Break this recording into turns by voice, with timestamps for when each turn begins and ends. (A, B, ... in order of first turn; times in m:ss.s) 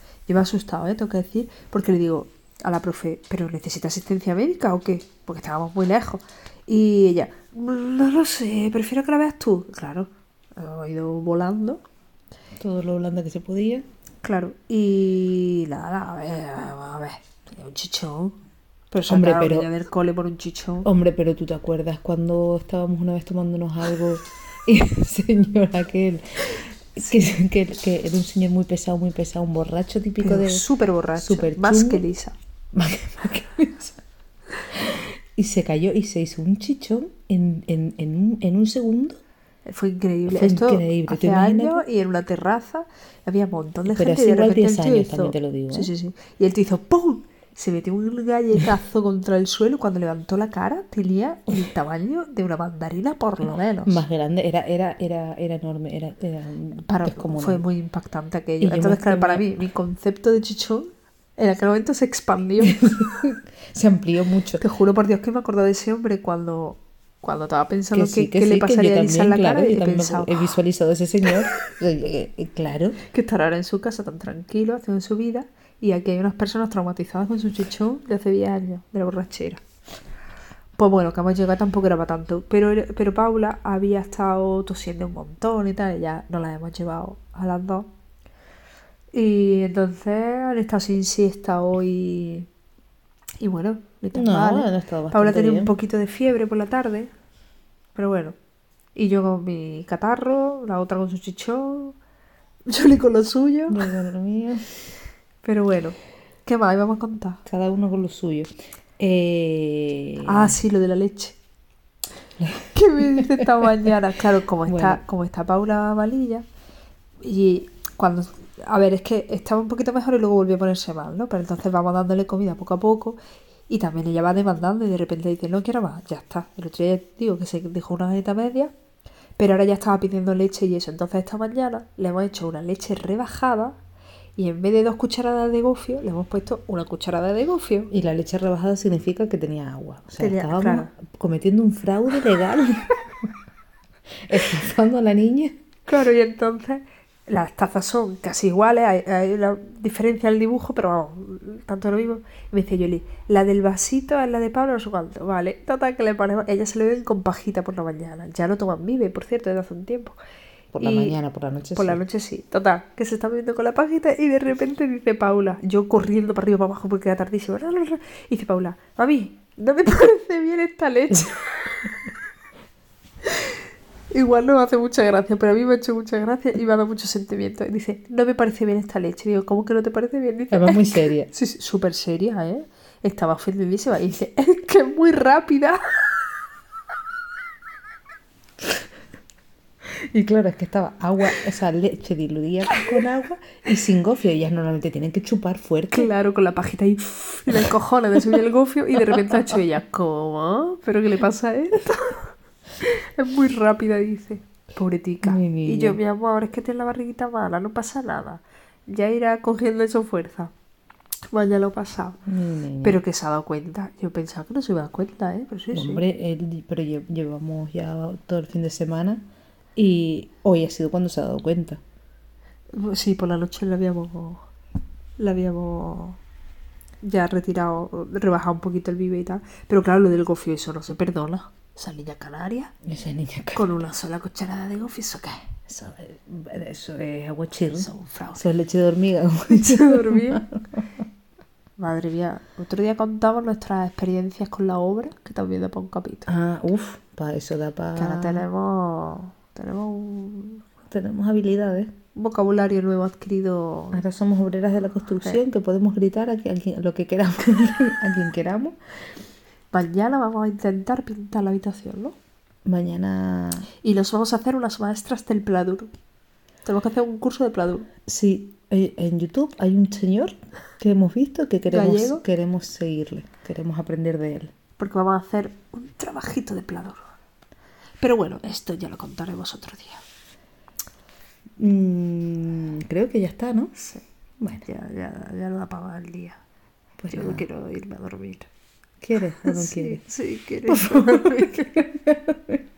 0:00.3-0:11.8 A
0:12.6-0:13.8 B
0:14.2-0:18.4 A
0:18.9-0:20.9 A
0:19.1-0:19.7 B
0:20.8-0:30.6 B
0:30.2-0:32.3 A
0:31.2-0:32.0 B
0:32.7-0:34.0 B
0:34.7-0:39.2 B
0:39.6-0:54.0 A
0:40.3-0:41.8 B
0:43.8-0:45.9 B
0:53.8-0:57.6 B
0:56.9-1:03.0 A
0:58.6-0:59.4 B
1:02.8-1:04.6 B
1:04.6-1:10.4 A
1:07.9-1:13.0 B
1:13.1-1:19.6 A
1:20.8-1:27.9 A
1:29.1-1:32.5 A
1:33.4-1:37.1 A
1:34.1-1:35.7 B
1:37.9-1:38.3 A
1:38.9-1:42.0 A
1:42.7-1:43.9 A
1:43.7-1:44.6 B
1:45.4-1:47.4 A
1:47.4-1:50.5 B
1:50.2-1:51.4 A
1:52.7-1:56.4 A
1:53.2-1:53.9 B
1:54.7-1:55.0 B
1:57.2-2:08.7 A
2:09.4-2:13.8 A
2:14.4-2:17.9 A
2:17.9-2:23.3 B
2:20.2-2:20.9 A
2:24.3-2:25.5 B
2:25.9-2:40.2 A
2:40.7-2:42.0 B
2:40.8-2:41.2 A
2:41.7-2:52.1 A
2:53.2-2:53.6 A
2:54.1-3:06.1 A
3:00.5-3:01.3 B
3:09.8-3:16.1 B
3:15.9-3:30.5 A
3:25.2-3:26.0 B
3:31.3-3:32.2 A
3:32.2-3:33.0 B
3:32.8-3:36.0 A
3:35.7-3:39.2 B
3:39.8-3:41.8 B
3:42.7-3:44.5 A
3:45.2-3:46.2 A
3:47.0-3:52.7 A
3:52.8-3:53.7 B
3:53.5-3:55.5 A
3:55.7-4:00.5 B
3:57.7-3:58.4 A
3:59.5-4:00.4 A
4:01.8-4:06.3 A
4:06.3-4:08.4 B
4:08.0-4:10.6 A
4:10.9-4:11.9 B
4:12.2-4:14.0 A
4:13.9-4:18.8 B
4:19.7-4:22.2 A
4:22.6-4:23.7 B
4:23.8-4:25.9 A
4:26.6-4:27.9 A
4:28.1-4:34.5 B
4:31.7-4:32.2 A
4:34.8-4:37.0 A
4:38.0-4:40.0 A
4:41.6-4:43.7 B
4:43.8-4:44.0 A
4:44.6-4:46.4 A
4:47.0-4:47.4 B
4:47.1-4:48.5 A
4:49.0-4:50.0 B
4:49.5-4:51.9 A
4:50.7-4:52.6 B